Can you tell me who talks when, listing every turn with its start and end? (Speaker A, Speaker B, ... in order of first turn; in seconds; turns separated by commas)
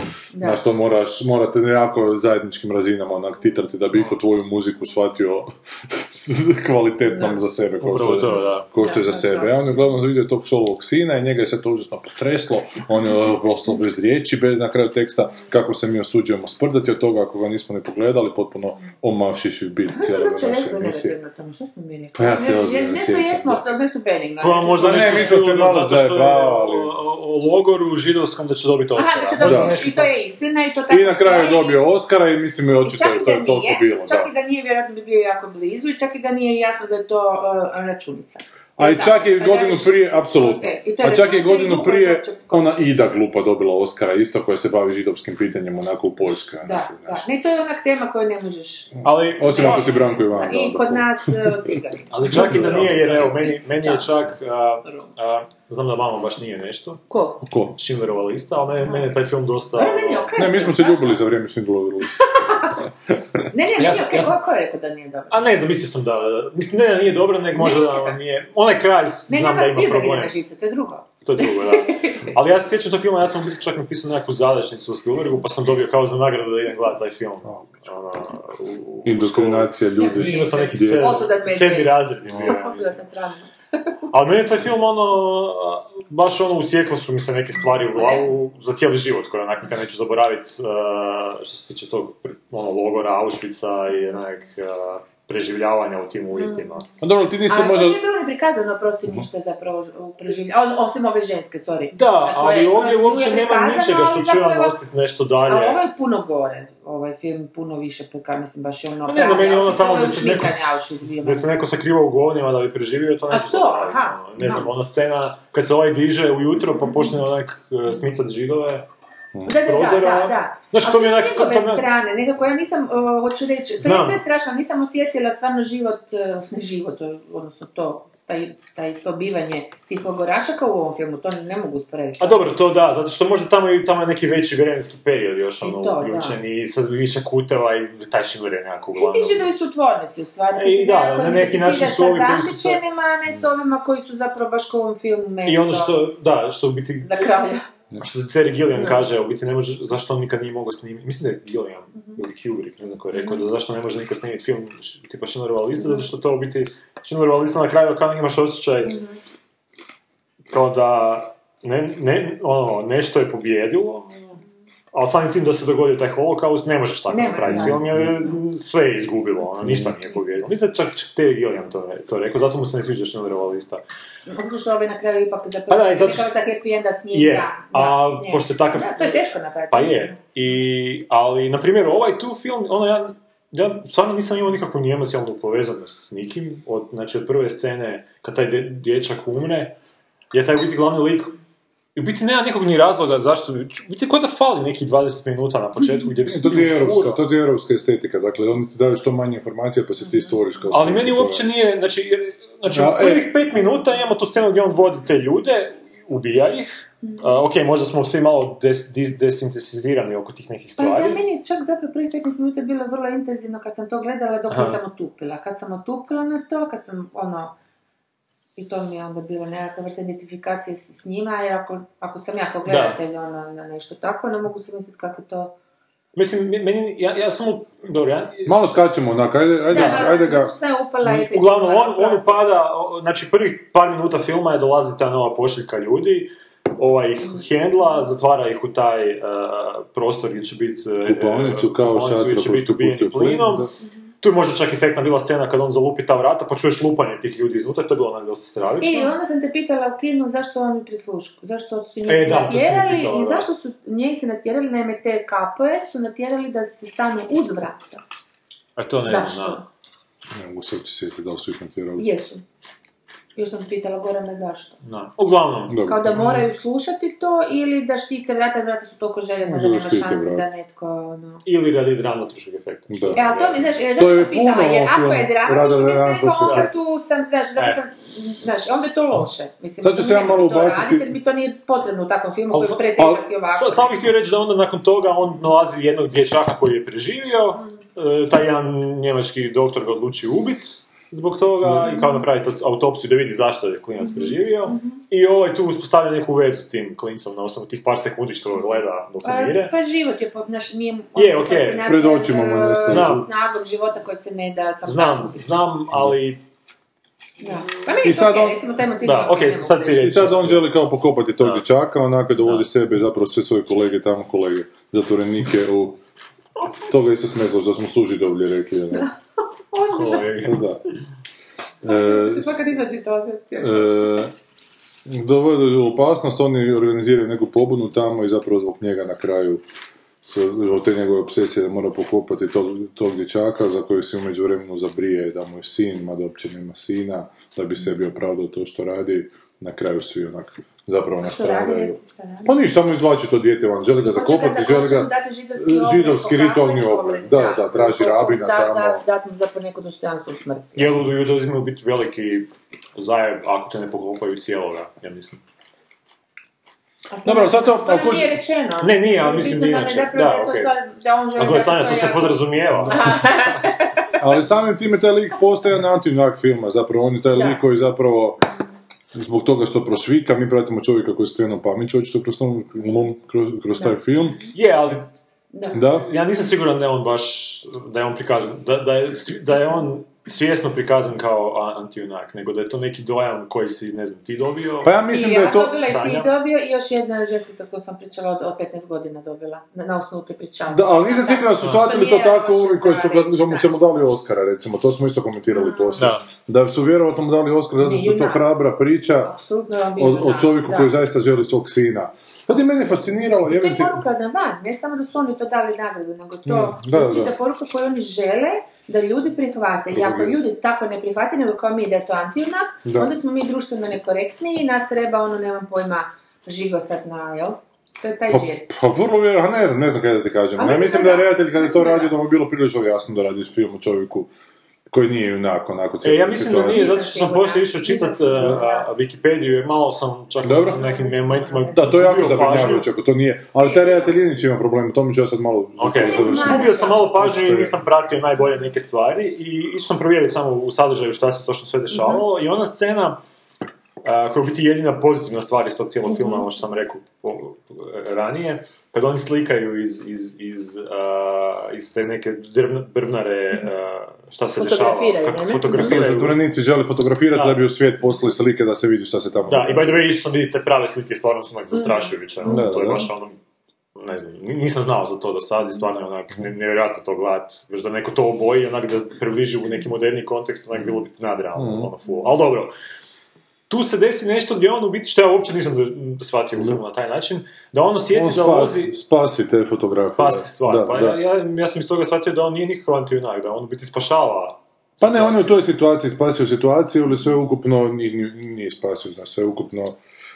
Speaker A: 0.3-0.6, Speaker B: 0.4-21.1, Speaker A: 7.1-7.4, Speaker C: 7.8-8.7, Speaker A: 8.2-9.7, Speaker A: 19.9-25.4, Speaker B: 22.1-23.6, Speaker C: 24.4-30.1, Speaker B: 24.7-26.9, Speaker A: 28.9-31.9, Speaker B: 29.4-29.9, Speaker B: 30.9-34.3, Speaker A: 32.8-42.8, Speaker B: 38.8-47.3, Speaker A: 46.6-54.1, Speaker B: 49.0-53.3, Speaker C: 49.0-50.1, Speaker C: 52.1-57.0, Speaker A: 57.1-57.4, Speaker B: 57.4-57.8, Speaker C: 57.7-60.3, Speaker A: 58.9-59.2, Speaker A: 59.7-61.2, Speaker B: 60.4-62.4, Speaker A: 62.3-62.8, Speaker A: 63.5-65.3, Speaker C: 63.8-64.4, Speaker C: 65.3-70.3, Speaker A: 67.5-68.2, Speaker A: 69.3-72.3, Speaker C: 71.2-83.0, Speaker B: 79.0-81.3, Speaker A: 80.0-83.5, Speaker B: 82.3-82.5, Speaker C: 84.1-96.9, Speaker A: 87.9-88.3, Speaker A: 96.3-96.8, Speaker B: 97.0-98.0, Speaker A: 97.5-104.8, Speaker C: 101.9-105.8, Speaker A: 105.5-111.5, Speaker C: 109.0-118.8, Speaker A: 113.3-114.7, Speaker A: 119.5-132.5, Speaker C: 119.5-121.9, Speaker C: 123.8-124.2, Speaker C: 132.2-139.5, Speaker A: 135.6-136.4, Speaker A: 139.0-146.1, Speaker C: 140.6-142.8, Speaker C: 145.4-147.3, Speaker A: 147.0-147.6, Speaker C: 148.0-159.0, Speaker A: 153.1-153.4, Speaker A: 155.8-156.1, Speaker A: 158.8-159.2, Speaker C: 160.5-164.4, Speaker C: 164.9-173.8, Speaker A: 167.1-168.0, Speaker B: 167.5-168.1, Speaker B: 169.6-169.9, Speaker A: 174.3-180.2, Speaker C: 175.7-176.3, Speaker C: 177.1-189.8, Speaker C: 190.3-191.4, Speaker C: 191.9-197.2, Speaker B: 196.2-201.5, Speaker A: 200.0-200.3, Speaker C: 200.7-211.2, Speaker B: 202.7-203.3, Speaker A: 210.8-217.5, Speaker C: 214.5-214.8, Speaker A: 218.6-225.5, Speaker C: 222.7-223.0, Speaker C: 226.1-228.6, Speaker B: 228.4-230.5, Speaker A: 229.7-232.4, Speaker C: 229.7-230.0, Speaker C: 231.0-249.2, Speaker B: 241.0-243.7, Speaker A: 248.8-258.0, Speaker C: 252.1-253.5, Speaker C: 258.8-259.6, Speaker A: 259.0-259.6, Speaker B: 260.3-262.1, Speaker A: 262.0-262.4, Speaker A: 263.4-264.8, Speaker C: 264.8-266.5, Speaker B: 265.7-266.2, Speaker A: 265.9-271.4, Speaker B: 269.5-270.4, Speaker C: 271.4-273.7, Speaker B: 272.9-273.2, Speaker A: 273.1-283.9, Speaker B: 273.9-276.7, Speaker C: 276.4-276.7, Speaker B: 279.8-281.1, Speaker C: 282.5-299.7, Speaker A: 291.9-292.2, Speaker A: 294.0-295.0, Speaker A: 299.2-305.4, Speaker C: 301.1-301.9, Speaker B: 301.8-303.3, Speaker C: 302.9-303.2, Speaker C: 304.9-306.4, Speaker A: 307.4-310.3, Speaker B: 308.0-308.6, Speaker C: 309.0-310.7, Speaker B: 309.9-316.0, Speaker C: 312.4-312.7, Speaker B: 316.9-319.1, Speaker A: 319.7-320.3, Speaker C: 319.9-320.6, Speaker B: 320.4-320.8, Speaker B: 321.8-322.6, Speaker A: 321.8-324.2, Speaker B: 323.6-324.3, Speaker B: 325.1-329.6, Speaker B: 330.2-349.0, Speaker A: 341.2-342.6, Speaker A: 344.0-350.9, Speaker C: 350.8-355.4, Speaker A: 357.1-364.1, Speaker B: 357.2-358.4, Speaker C: 358.8-360.7, Speaker C: 361.4-363.6, Speaker B: 364.2-368.4, Speaker A: 367.3-367.6, Speaker B: 369.1-374.5, Speaker C: 374.5-375.1, Speaker C: 375.7-385.0, Speaker B: 375.7-376.1, Speaker B: 384.8-385.8, Speaker A: 385.1-393.8, Speaker C: 385.6-386.3, Speaker B: 390.7-399.3, Speaker A: 395.5-396.2, Speaker C: 396.0-396.2, Speaker A: 397.8-398.6, Speaker A: 399.2-400.9, Speaker B: 400.0-404.0, Speaker A: 403.5-418.7, Speaker B: 406.4-407.3, Speaker B: 409.9-410.4, Speaker B: 412.8-413.1, Speaker B: 418.3-424.3, Speaker A: 420.6-422.1, Speaker B: 424.9-427.1, Speaker C: 426.0-432.9, Speaker A: 426.6-428.9, Speaker B: 430.4-430.8, Speaker A: 430.7-432.1, Speaker B: 431.7-437.8, Speaker A: 433.6-434.1, Speaker C: 435.8-443.2, Speaker A: 435.9-437.1, Speaker A: 441.9-442.2, Speaker C: 444.0-456.4, Speaker A: 446.1-446.4, Speaker A: 454.6-456.0, Speaker B: 455.7-460.0, Speaker C: 457.3-457.6, Speaker C: 459.5-463.4, Speaker A: 461.8-462.6, Speaker B: 462.4-463.1, Speaker C: 463.9-472.7, Speaker B: 471.5-471.9, Speaker C: 473.7-478.9, Speaker B: 478.1-481.2, Speaker C: 480.0-485.6, Speaker B: 485.0-490.0